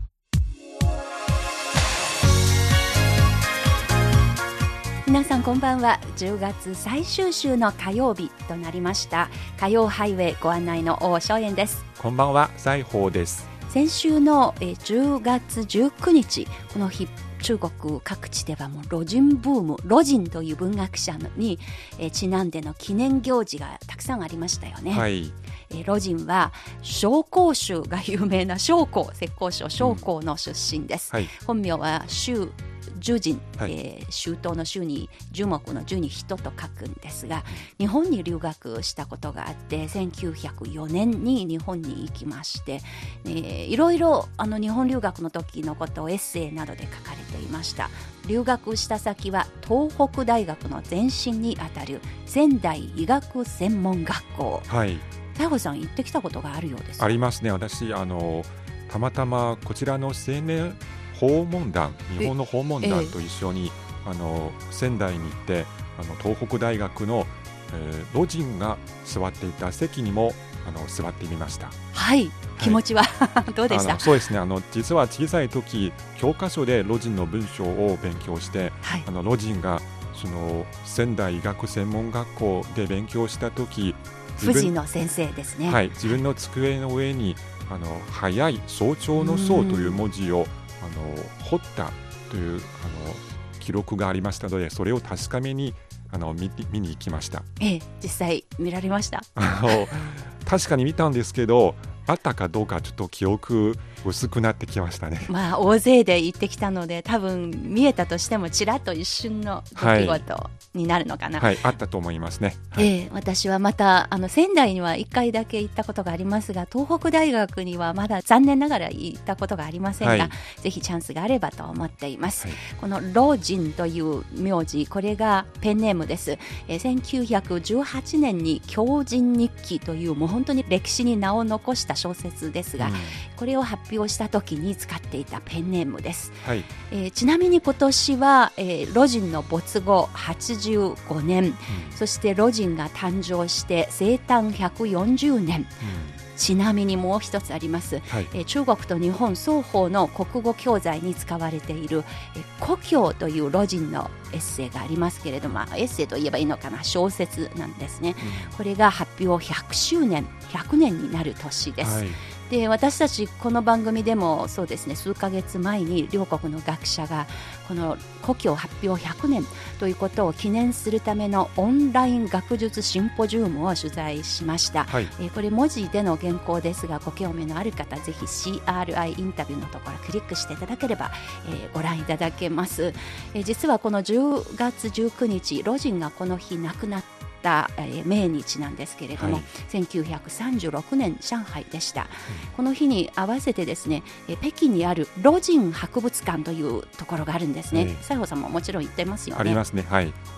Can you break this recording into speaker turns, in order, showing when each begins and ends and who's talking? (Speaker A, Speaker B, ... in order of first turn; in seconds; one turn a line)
Speaker A: 5.0-11.8
Speaker B: 12.0-13.5
Speaker A: 13.7-25.1
Speaker B: 24.9-25.4
Speaker A: 25.7-54.7
Speaker B: 54.7-55.1
Speaker A: 55.3-57.1
Speaker B: 57.0-71.8
Speaker A: 62.2-63.1
Speaker A: 71.9-74.3
Speaker B: 73.7-84.7
Speaker A: 84.4-86.2
Speaker B: 85.7-97.5
Speaker A: 89.2-90.0
Speaker A: 97.6-99.8
Speaker B: 99.4-105.3
Speaker A: 105.3-111.6
Speaker B: 109.8-110.2
Speaker B: 111.4-112.9
Speaker A: 112.8-145.8
Speaker B: 120.0-120.3
Speaker B: 132.8-133.2
Speaker B: 136.4-136.7
Speaker B: 141.7-142.0
Speaker B: 145.8-146.2
Speaker A: 146.3-199.6
Speaker B: 158.2-158.6
Speaker B: 161.8-162.2
Speaker B: 174.9-175.1
Speaker B: 189.2-189.5
Speaker B: 197.7-198.0
Speaker B: 199.4-200.2